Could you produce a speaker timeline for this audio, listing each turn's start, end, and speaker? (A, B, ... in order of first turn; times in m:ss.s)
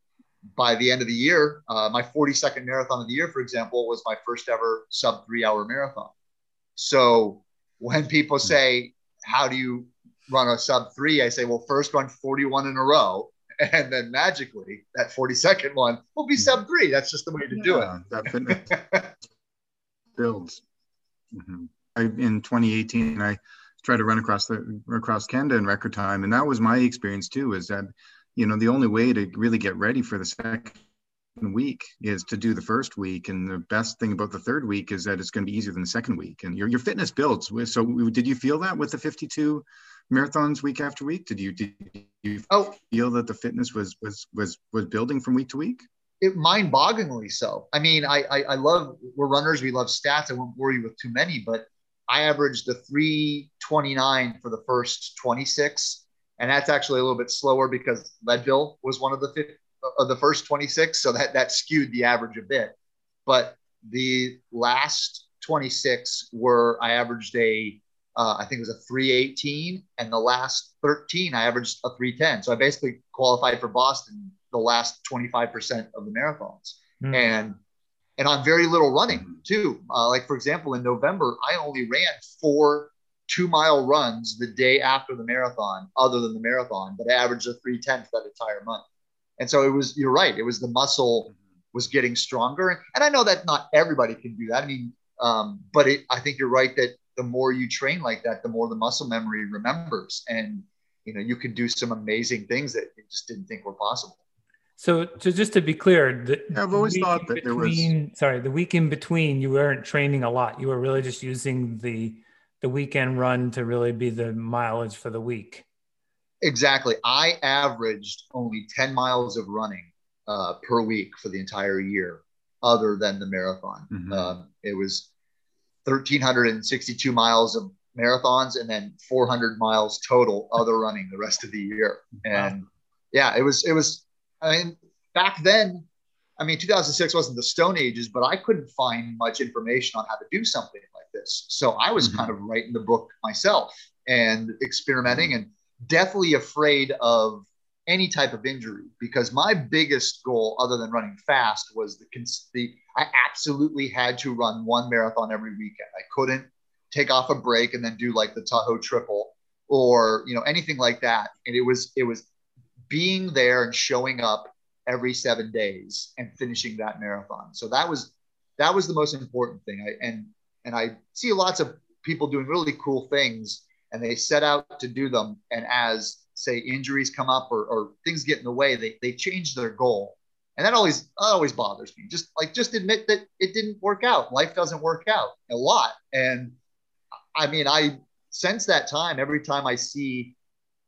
0:00.6-0:06.1 A
0:06.8-0:17.9 A
0:17.5-0:18.7 B
0:18.5-0:19.1 A
0:20.1-0:20.6 B
0:21.3-0:30.8 B
0:31.4-0:45.8 B
0:42.5-0:42.7 A
0:46.2-1:02.7 A
1:03.2-1:17.6 A
1:17.0-1:17.3 C
1:18.2-1:28.8 A
1:29.4-1:44.2 A
1:44.8-1:55.6 C
1:46.5-1:47.9 B
1:56.4-2:05.1 A
2:03.9-2:04.3 B
2:05.8-2:15.8 A
2:16.4-2:42.2 A
2:22.0-2:22.3 B
2:42.9-3:06.5 A
3:07.3-3:10.3 A